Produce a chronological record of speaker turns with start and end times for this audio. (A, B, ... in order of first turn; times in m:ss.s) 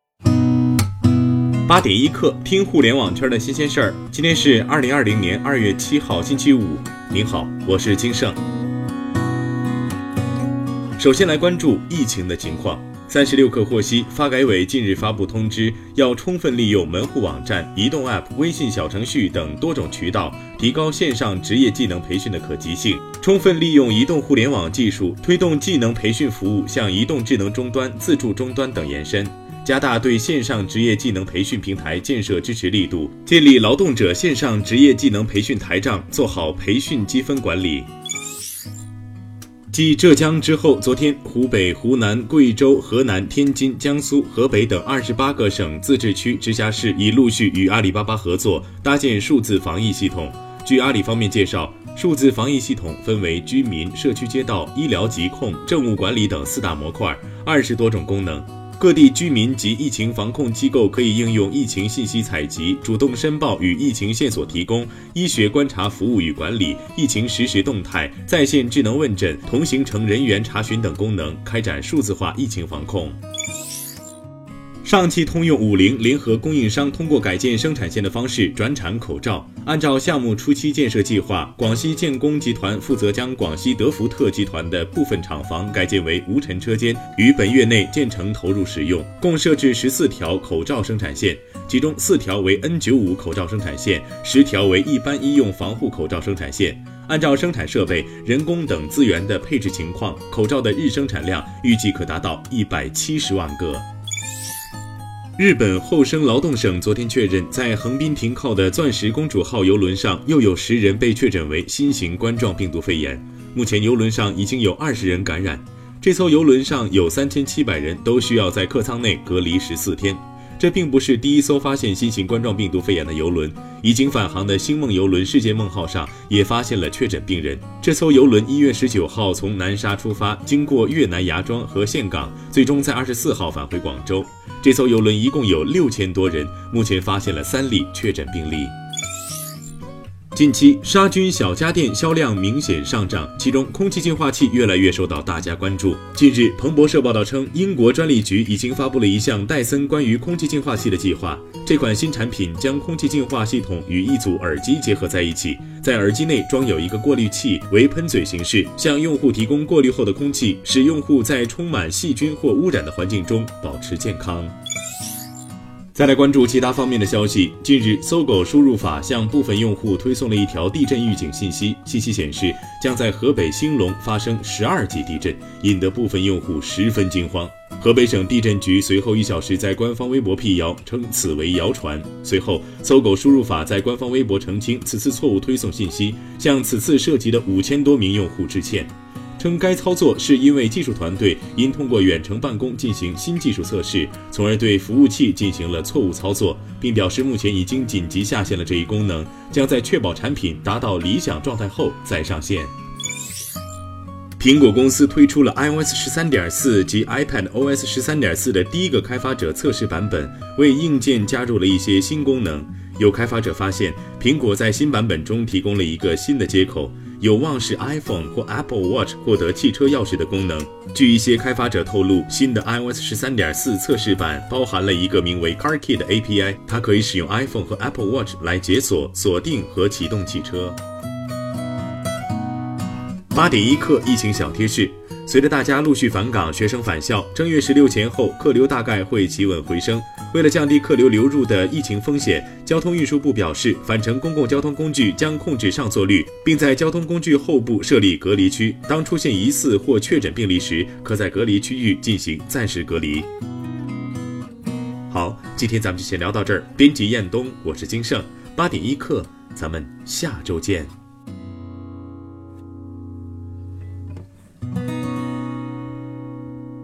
0:01.7-0:08.4 A
0:11.0-0:37.9 A
0:39.7-1:13.2 A
1:14.8-1:43.9 A
1:45.4-2:18.7 A
2:20.3-2:44.5 A
2:45.9-3:22.7 A
3:24.4-3:50.8 A
3:53.3-4:13.3 A
4:15.1-4:20.9 A